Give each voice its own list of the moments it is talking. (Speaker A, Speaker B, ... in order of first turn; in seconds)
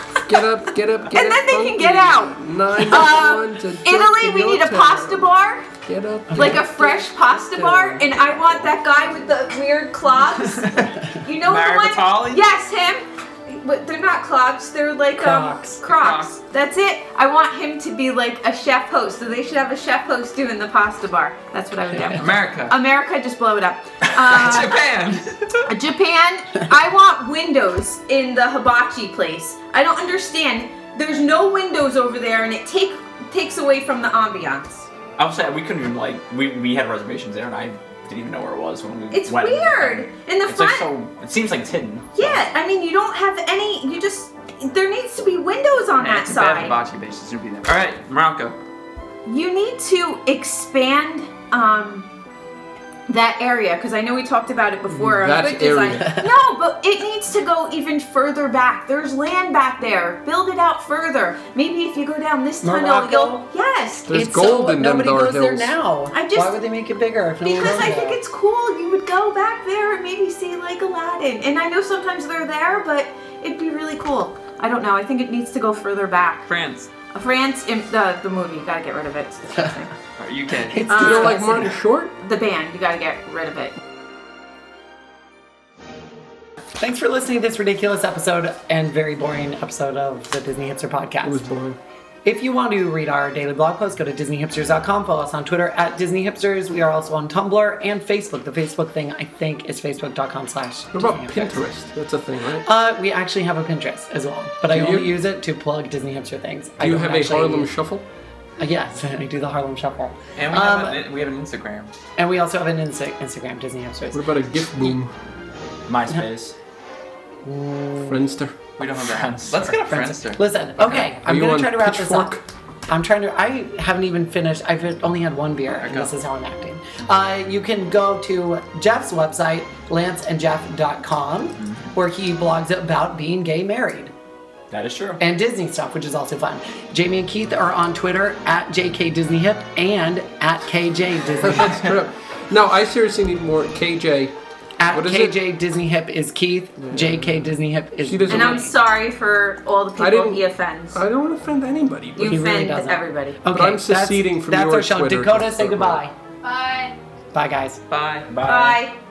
Speaker A: 0.3-8.1, 54.9-56.2, 64.1-65.8, 80.9-82.2, 91.2-91.8, 100.9-102.7, 104.7-105.2, 106.8-108.0, 114.1-115.1, 118.1-118.5, 121.1-122.4, 141.4-144.3, 144.9-145.4, 146.8-147.5, 148.0-148.7, 150.0-152.4, 153.5-156.0
Speaker B: 1.1-5.7, 6.3-24.8, 25.7-34.9, 39.1-40.9, 42.2-46.8, 49.2-52.1, 53.1-64.2, 66.1-66.6, 67.4-76.5, 77.1-79.9, 80.9-83.8, 148.3-151.0, 152.2-153.4, 156.4-156.9, 158.4-159.0
Speaker C: 6.3-6.7, 10.6-11.2, 15.2-15.8, 56.0-56.3, 62.6-63.5, 64.1-68.2, 80.7-81.8, 86.8-91.4, 92.2-101.6, 102.6-107.7, 108.6-111.0, 112.2-114.2, 117.5-118.2, 119.7-122.4, 122.9-134.1, 135.2-141.9, 144.8-148.7, 152.2-156.1, 157.3-157.8
Speaker D: 11.4-12.5, 15.8-16.4, 22.1-22.8, 24.0-25.7, 46.0-48.6, 76.5-76.9, 80.2-80.9, 110.4-112.0, 118.8-121.1, 125.7-126.1, 157.9-158.3
Speaker E: 35.2-42.5, 115.9-116.6, 119.0-119.8, 131.6-131.9, 134.7-135.2, 158.3-158.8